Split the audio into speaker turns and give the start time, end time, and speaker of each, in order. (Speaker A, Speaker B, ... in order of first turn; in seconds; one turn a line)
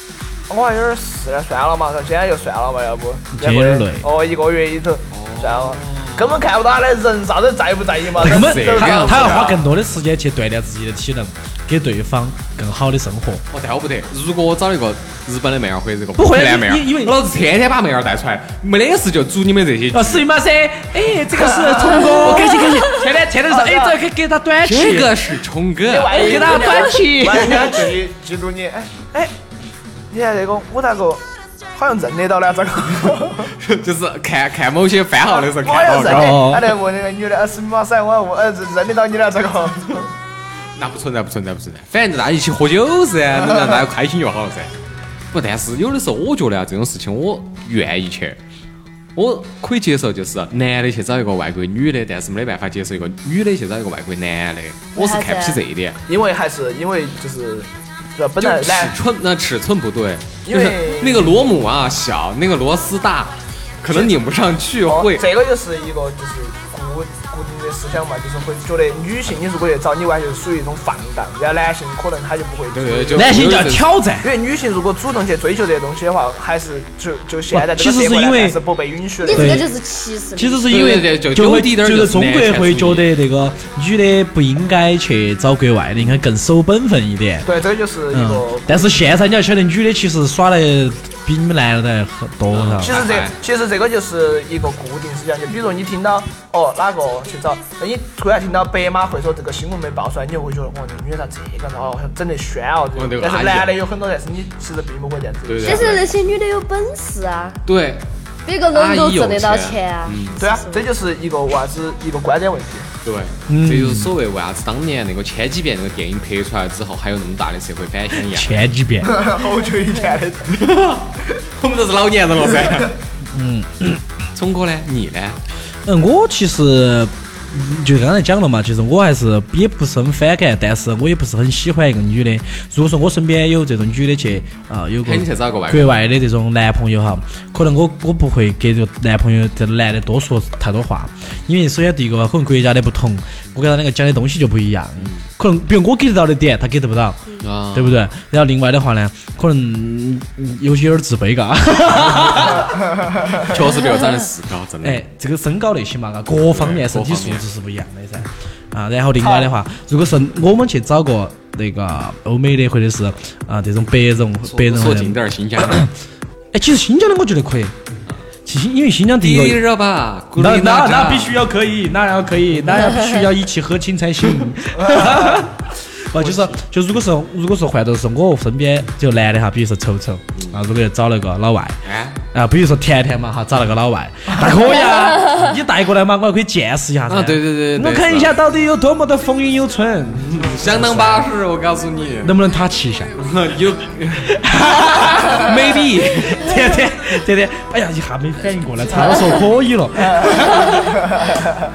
Speaker A: 0.5-9.6
Speaker B: 3.3-4.1
Speaker C: 5.1-6.4
Speaker C: 8.2-9.6
Speaker B: 8.2-13.4
Speaker C: 13.5-20.3
Speaker B: 16.2-17.2
Speaker B: 19.9-25.2
Speaker A: 21.6-22.4
Speaker C: 22.1-22.6
Speaker A: 23.5-24.0
Speaker C: 24.6-26.7
Speaker A: 25.9-29.3
Speaker B: 26.1-27.9
Speaker A: 30.1-33.5
Speaker C: 33.6-36.4
Speaker A: 35.3-40.1
Speaker B: 36.0-36.8
Speaker C: 40.8-44.7
Speaker C: 45.3-48.4
Speaker C: 49.2-56.0
Speaker D: 55.0-55.6
Speaker A: 56.1-59.0
Speaker C: 58.4-65.3
Speaker A: 60.5-61.5
Speaker A: 63.9-64.2
Speaker A: 64.9-73.5
Speaker C: 72.7-73.9
Speaker B: 73.1-74.3
Speaker A: 74.2-79.7
Speaker B: 77.5-78.6
Speaker D: 79.2-80.9
Speaker B: 79.3-79.7
Speaker B: 80.4-87.5
Speaker C: 80.7-83.1
Speaker A: 87.4-89.0
Speaker B: 88.1-93.0
Speaker C: 92.5-93.4
Speaker A: 92.8-106.0
Speaker C: 103.0-103.8
Speaker C: 105.5-106.1
Speaker D: 105.6-107.6
Speaker C: 107.7-108.1
Speaker D: 108.5-110.9
Speaker C: 108.7-110.4
Speaker A: 110.4-112.9
Speaker C: 113.0-118.7
Speaker B: 113.5-114.1
Speaker B: 118.2-119.2
Speaker A: 119.0-120.8
Speaker C: 120.5-123.0
Speaker B: 123.3-124.0
Speaker C: 124.3-125.4
Speaker B: 125.9-152.8
Speaker C: 135.0-136.1
Speaker C: 147.4-148.1
Speaker C: 152.1-152.5
Speaker A: 152.9-153.5
Speaker C: 153.3-155.0
Speaker B: 154.8-165.9
Speaker C: 156.5-157.4
Speaker A: 159.2-159.6
Speaker C: 164.4-165.9
Speaker B: 166.5-167.8
Speaker B: 168.4-169.6
Speaker C: 169.2-171.4
Speaker B: 170.4-181.8
Speaker C: 176.2-176.6
Speaker C: 180.3-180.6
Speaker C: 181.8-182.2
Speaker B: 182.3-191.2
Speaker C: 187.1-188.3
Speaker C: 190.2-192.4
Speaker B: 192.2-193.1
Speaker C: 193.2-196.5
Speaker B: 194.2-201.1